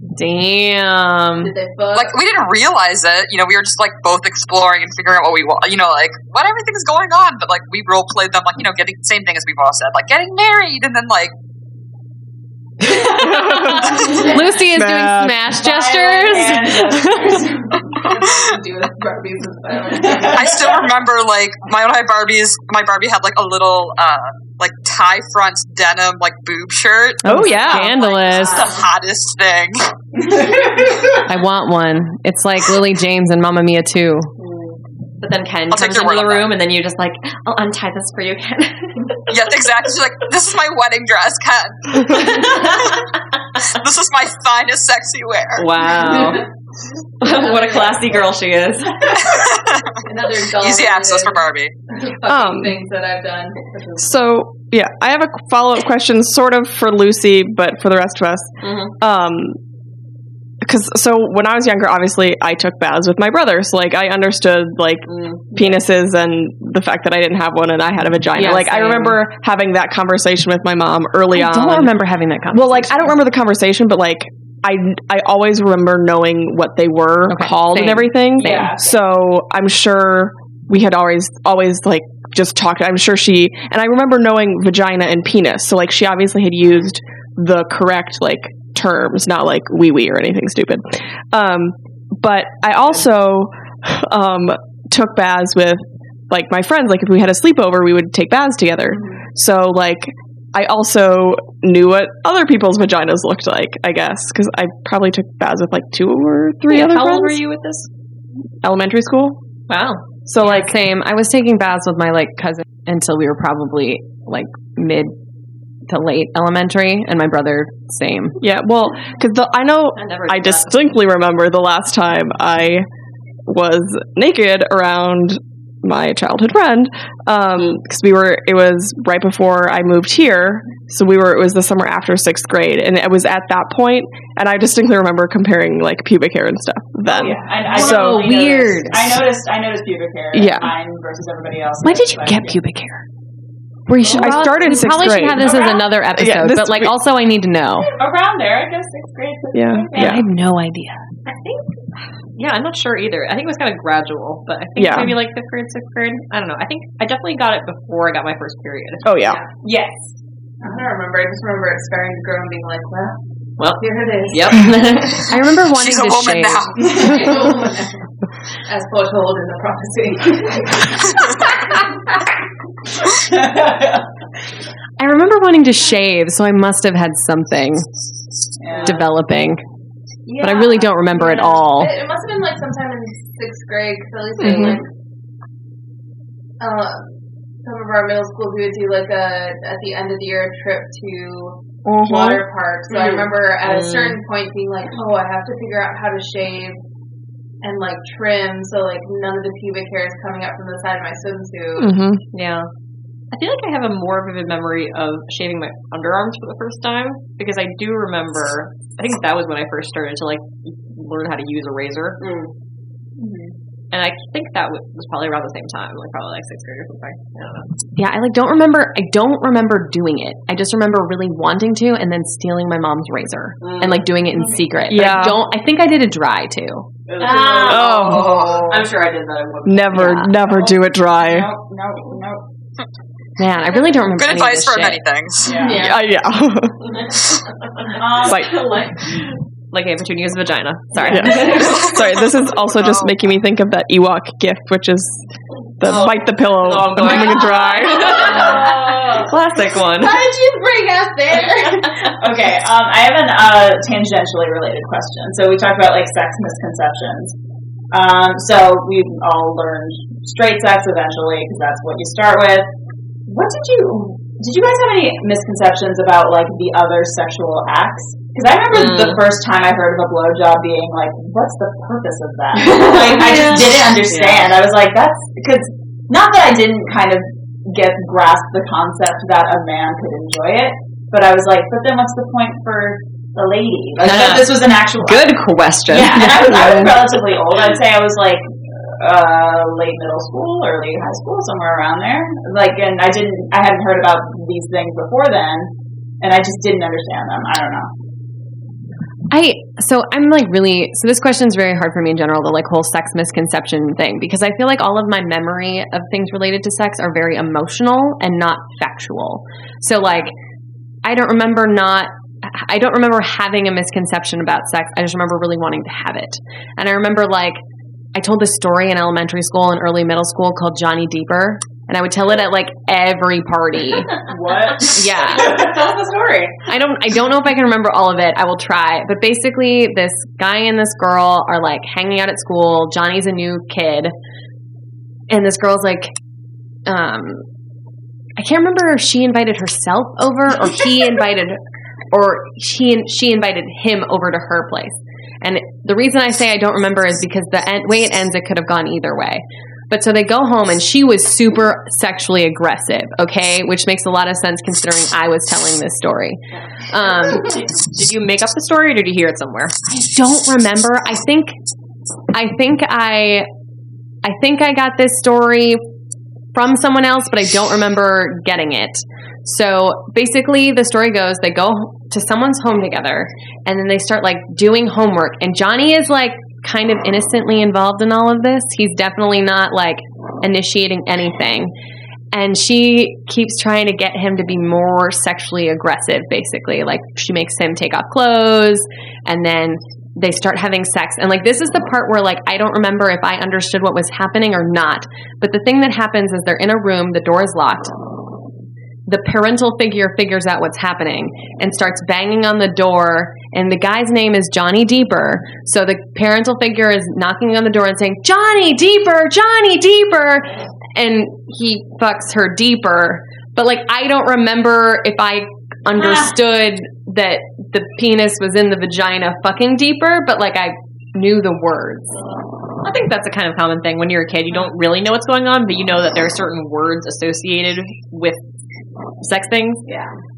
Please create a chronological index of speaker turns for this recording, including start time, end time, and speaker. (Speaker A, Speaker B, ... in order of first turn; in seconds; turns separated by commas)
Speaker A: 0.1-1.5, Speaker B: 1.4-2.2, Speaker C: 1.9-11.3, Speaker D: 13.1-14.0, Speaker A: 13.9-17.0, Speaker D: 14.7-15.4, Speaker E: 15.5-17.8, Speaker B: 17.3-20.8, Speaker E: 20.2-20.7, Speaker C: 20.3-29.9, Speaker A: 27.2-28.6, Speaker D: 27.2-27.9, Speaker E: 28.5-28.7, Speaker B: 28.6-28.8, Speaker E: 30.2-31.2, Speaker A: 31.2-34.3, Speaker F: 34.4-39.7, Speaker C: 35.7-36.5, Speaker C: 39.3-43.0, Speaker F: 42.0-43.0, Speaker C: 43.6-45.7, Speaker F: 45.5-46.5, Speaker B: 46.0-46.5, Speaker F: 47.2-49.2, Speaker B: 47.2-48.3, Speaker B: 49.0-49.5, Speaker C: 49.2-50.0, Speaker B: 50.0-54.1, Speaker C: 50.5-51.7, Speaker D: 52.2-52.8, Speaker D: 54.0-59.6, Speaker F: 58.6-58.9, Speaker D: 60.6-71.9, Speaker F: 65.1-65.8, Speaker F: 68.4-69.2, Speaker A: 71.3-73.2, Speaker D: 72.5-107.4, Speaker A: 77.3-78.6, Speaker E: 78.4-79.0, Speaker F: 106.7-107.9, Speaker D: 108.6-109.4, Speaker F: 109.7-110.0, Speaker D: 110.3-110.7, Speaker A: 110.4-115.1, Speaker A: 115.9-118.4, Speaker D: 118.4-122.8, Speaker F: 120.0-120.8, Speaker D: 123.5-138.3, Speaker E: 137.1-142.6, Speaker A: 137.7-139.2, Speaker D: 140.3-140.7, Speaker A: 141.8-143.0, Speaker A: 143.9-147.9, Speaker E: 144.0-144.4, Speaker D: 144.1-145.6, Speaker E: 145.3-145.9, Speaker D: 146.1-146.9, Speaker E: 147.8-150.2, Speaker D: 149.5-150.2, Speaker A: 149.9-151.0, Speaker F: 151.2-159.5, Speaker D: 154.8-155.1, Speaker D: 159.0-159.4, Speaker E: 159.6-160.1, Speaker B: 160.6-163.2, Speaker F: 163.6-165.3, Speaker B: 163.8-165.2, Speaker A: 165.2-167.2, Speaker C: 165.7-167.2, Speaker B: 166.8-168.0, Speaker B: 168.7-171.9, Speaker E: 173.2-174.0, Speaker A: 175.0-177.9, Speaker E: 178.6-179.1, Speaker A: 178.8-179.6, Speaker B: 180.3-184.9, Speaker A: 180.4-181.9, Speaker D: 184.4-184.8, Speaker B: 186.6-187.1, Speaker B: 187.6-196.8, Speaker D: 191.8-192.4, Speaker F: 192.9-194.2, Speaker B: 197.6-201.9, Speaker D: 201.8-202.2, Speaker F: 202.3-202.7, Speaker F: 203.3-212.4, Speaker E: 213.2-213.5, Speaker F: 213.9-217.7, Speaker A: 217.9-226.8, Speaker F: 223.6-224.0, Speaker D: 224.9-225.4, Speaker E: 227.1-228.8, Speaker F: 227.2-230.0, Speaker B: 227.2-227.7, Speaker D: 227.6-228.7, Speaker D: 229.6-231.5, Speaker A: 229.9-230.3, Speaker E: 230.4-232.4, Speaker A: 233.4-235.0, Speaker C: 234.1-235.7, Speaker E: 235.4-235.9, Speaker B: 235.5-236.0, Speaker D: 235.7-237.0, Speaker E: 237.9-238.5, Speaker F: 238.2-242.1, Speaker D: 238.2-238.7, Speaker D: 241.1-245.2, Speaker C: 241.5-243.1, Speaker D: 245.8-248.6, Speaker F: 245.8-250.3, Speaker B: 247.3-249.3, Speaker E: 248.3-249.3, Speaker B: 249.8-252.1, Speaker E: 252.2-257.3, Speaker E: 257.9-262.7, Speaker E: 263.3-297.9, Speaker F: 268.7-269.2, Speaker F: 272.6-274.5, Speaker F: 284.0-286.9, Speaker D: 286.5-286.9, Speaker A: 299.3-310.3, Speaker A: 311.0-317.6, Speaker A: 318.1-324.1, Speaker E: 324.2-326.6, Speaker A: 324.8-325.6, Speaker A: 326.7-334.1, Speaker A: 335.3-336.1, Speaker A: 336.9-337.4, Speaker A: 338.4-341.6, Speaker A: 342.1-357.6, Speaker F: 357.3-359.7, Speaker A: 359.9-361.6, Speaker A: 362.3-363.5, Speaker A: 364.2-365.8, Speaker A: 366.5-381.7, Speaker A: 382.3-398.0, Speaker A: 399.1-422.1, Speaker F: 422.8-428.4, Speaker F: 429.2-429.8